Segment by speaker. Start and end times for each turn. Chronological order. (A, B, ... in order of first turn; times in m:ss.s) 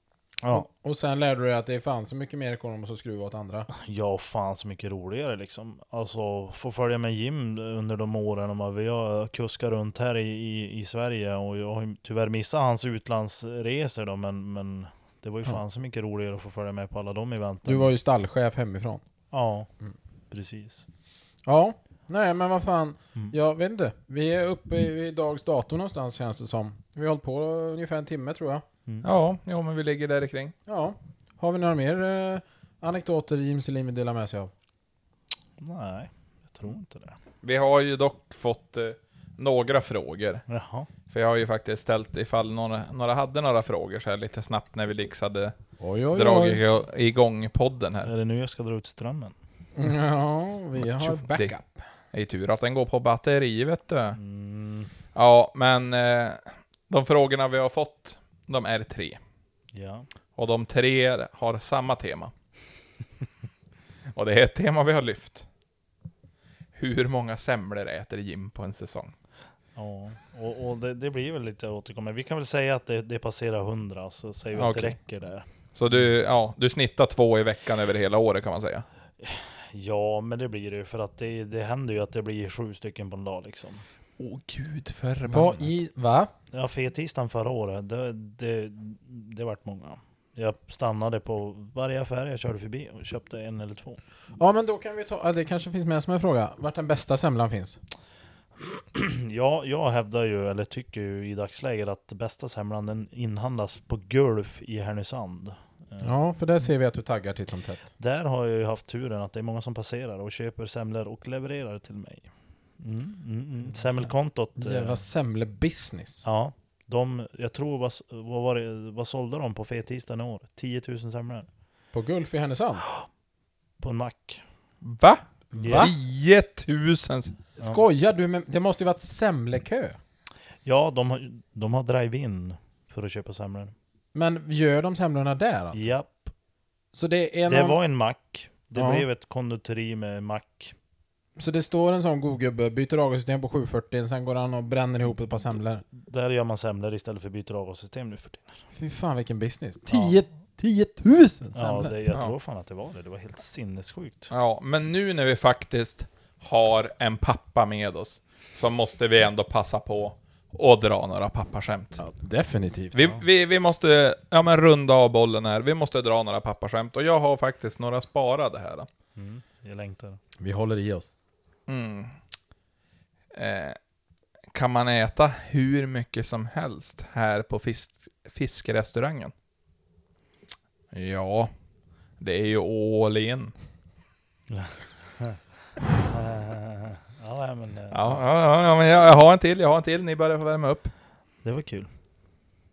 0:00.4-0:00.7 A
0:00.5-0:03.7 B
0:03.7-0:17.9 A
0:17.6-0:19.0 B
0:19.3-0:19.7 A
0:20.3-0:20.9 A
0:21.5-0:28.6 B
0:29.0-0:30.5 C
0:30.7-0:34.5 B
0:35.6-0:37.2 A
0:37.4-0:40.4 C
0:40.5-0:40.9 A
0:41.1-0:45.5 C
0:45.8-0:46.6 B
0:46.1-0:48.1 C
0:48.0-0:49.4 A
0:49.8-0:51.8 B
0:50.8-0:51.5 C
0:52.1-0:54.2 C
0:54.2-0:54.9 A
0:55.2-0:59.2 C
0:59.7-1:00.1 A
1:00.4-1:02.3 C
1:04.1-1:05.5 C
1:06.8-1:09.1 C
1:09.8-1:16.1 A
1:14.6-1:15.0 C
1:15.8-1:18.8 C
1:19.2-1:23.8 A
1:24.2-1:25.7 C
1:25.3-1:26.3 B
1:26.5-1:34.0 A
1:34.4-1:37.8 B
1:38.9-1:46.2 A
1:46.0-1:47.9 B
1:48.0-1:55.0 A
1:54.6-1:56.2 B
1:56.2-2:01.5 A
2:01.9-2:02.8 B
2:03.8-2:04.4 A
2:04.8-2:07.3 C
2:05.5-2:05.9 B
2:05.6-2:05.9 A
2:07.6-2:10.0 B
2:10.6-2:13.7 A
2:14.1-2:15.9 B
2:15.7-2:16.3 A
2:16.9-2:17.8 B
2:17.5-2:20.8 A
2:18.8-2:19.1 B
2:21.4-2:25.8 B
2:26.0-2:28.6 A
2:28.7-2:32.0 B
2:29.9-2:30.2 A
2:31.6-2:34.3 A
2:34.3-2:42.0 C
2:42.0-2:43.1 B
2:42.9-2:48.9 C
2:49.2-2:50.2 A
2:50.4-2:51.1 B
2:51.7-2:52.1 C
2:53.3-2:53.8 C
2:54.5-2:59.3 C
3:00.9-3:01.5 C
3:02.2-3:03.5 C
3:04.5-3:05.4 A
3:06.0-3:08.2 A
3:07.9-3:10.9 C
3:11.4-3:11.9 A